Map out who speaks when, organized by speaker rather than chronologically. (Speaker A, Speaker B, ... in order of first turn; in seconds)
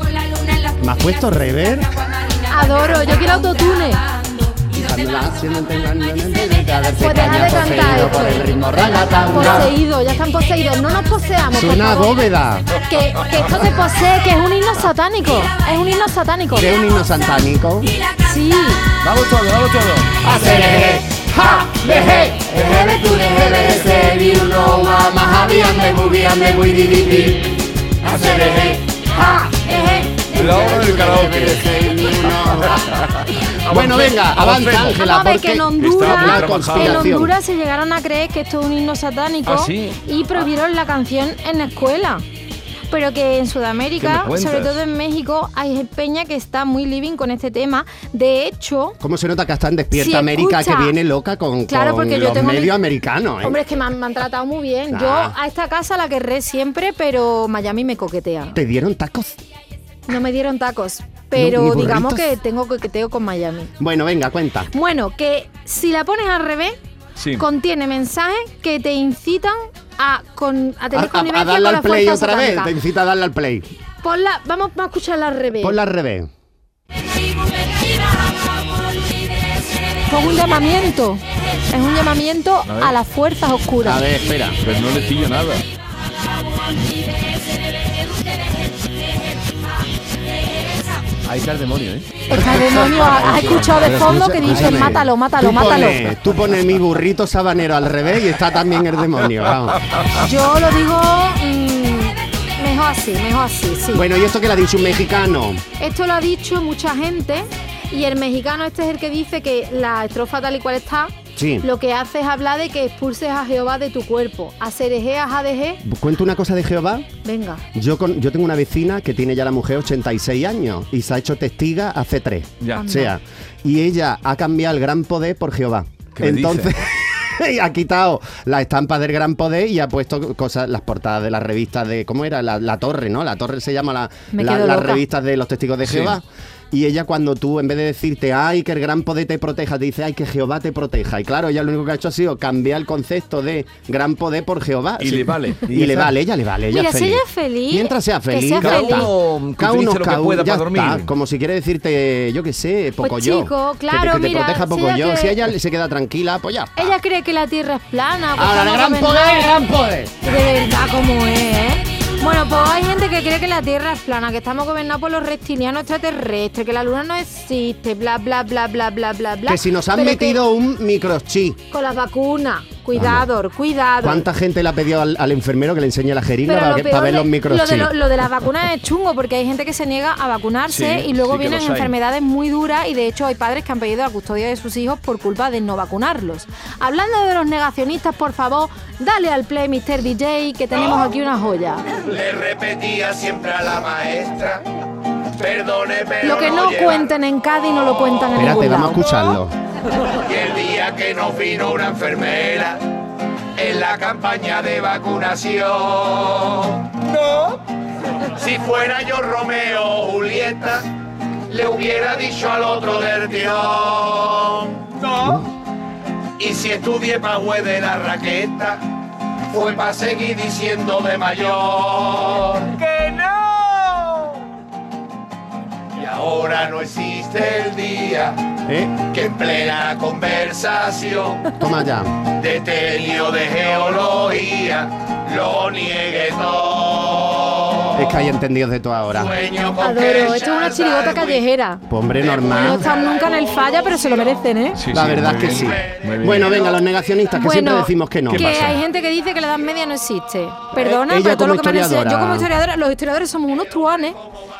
Speaker A: 0.2-0.7, 2.3-4.5, 7.0-16.8, 18.1-18.9, 25.3-26.0, 28.1-28.8, 29.4-30.4, 34.9-42.2, 42.9-49.0, 49.9-51.0, 51.7-52.8, 53.4-58.6, 60.1-63.7, 64.7-66.8, 67.4-72.7, 74.0-75.8, 80.0-84.0, 92.3-96.0, 100.1-104.0, 105.8-115.8, 117.2-117.6, 122.8-123.1, 134.3-135.0, 146.7-149.1, 153.0-155.4, 156.8-159.6, 160.2-170.4, 171.7-174.3, 176.4-191.8, 196.2-199.2, 239.8-241.8, 242.4-244.8, 247.3-254.2
Speaker B: 0.8-2.0, 4.7-9.7, 11.5-12.7, 16.5-18.0, 20.2-37.3, 49.0-53.6, 54.9-55.4, 58.5-59.4, 61.3-62.3, 63.8-64.7, 70.9-73.7, 75.6-76.3, 83.8-84.6, 92.3-93.2, 93.8-99.8, 103.9-105.6, 111.3-111.7, 115.8-117.1, 117.7-156.9, 158.3-160.2, 169.4-171.6, 172.9-173.3, 174.0-177.9, 198.3-199.5, 228.7-229.0, 231.6-232.2, 237.9-239.3, 241.9-242.9, 244.9-248.6, 250.7-252.5
Speaker C: 19.0-20.2, 91.2-95.0, 145.7-146.1
Speaker D: 30.3-31.8, 32.6-35.0, 35.8-37.1, 39.5-40.0, 44.0-44.7, 67.2-67.4, 82.7-82.9, 84.6-85.6, 126.2-126.8, 135.8-136.2, 145.0-145.6, 148.6-151.1, 180.7-181.9, 244.7-246.6, 248.3-248.8
Speaker E: 192.0-194.6, 195.3-197.1, 200.2-202.8, 203.5-207.6, 208.3-210.9, 211.5-215.4, 216.4-218.9, 219.5-223.6, 225.9-231.6, 232.2-238.2, 239.1-241.4, 242.2-244.3, 245.2-246.8